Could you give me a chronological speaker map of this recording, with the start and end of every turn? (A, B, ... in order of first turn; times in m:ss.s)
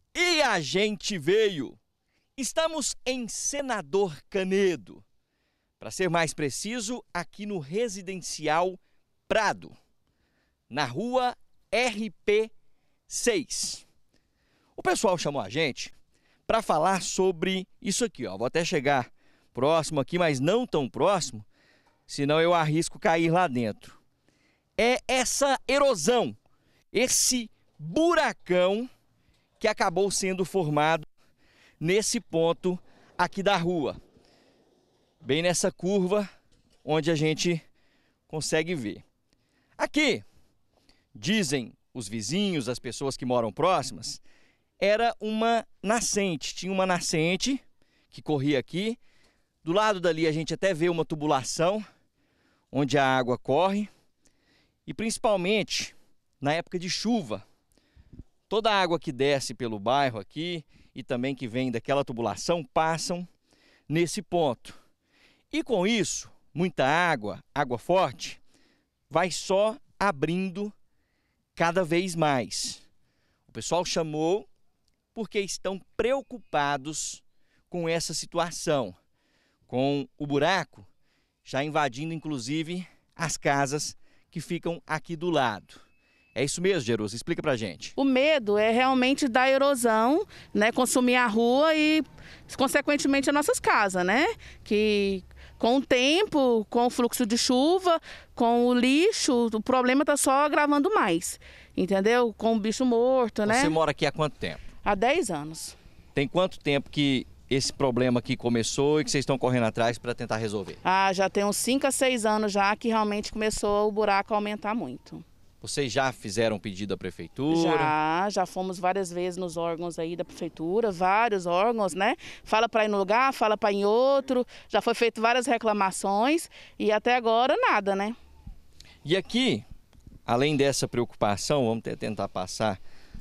0:00.1-0:01.8 A
0:02.4-0:05.0 A
0:05.8-0:09.7 A
0:10.7-0:12.5 A
0:13.1-0:13.8 A
0:14.8-0:16.0 A
0:16.5-0:21.4 A
0:22.1-0:24.0 A
0:24.8-0:26.4 A
0:26.9-0:28.9 A
0:29.6-0:31.1 A
0:31.8-0:34.0 A
0:35.2-0:36.3 A
0:36.8-0:37.6 A
0:38.3-0:39.0 A
0:39.8-0:40.2 A
0:41.1-0:44.2 A
0:44.8-0:49.0 A
0:49.6-0:51.8 A
0:52.7-0:53.9 A
0:54.8-0:57.4 A
0:58.5-1:03.2 A
1:03.9-1:04.8 A
1:05.5-1:08.4 A
1:09.1-1:10.7 A
1:11.6-1:12.8 A
1:13.5-1:14.5 A
1:15.1-1:18.9 A
1:19.7-1:20.9 A
1:21.4-1:25.8 A
1:26.3-1:27.9 A
1:28.0-1:43.8 B
1:43.4-1:44.6 A
1:44.8-1:45.7 B
1:46.1-1:50.8 A
1:50.8-1:55.2 B
1:55.6-1:57.9 A
1:57.5-2:08.2 B
2:09.0-2:09.6 A
2:10.3-2:12.8 A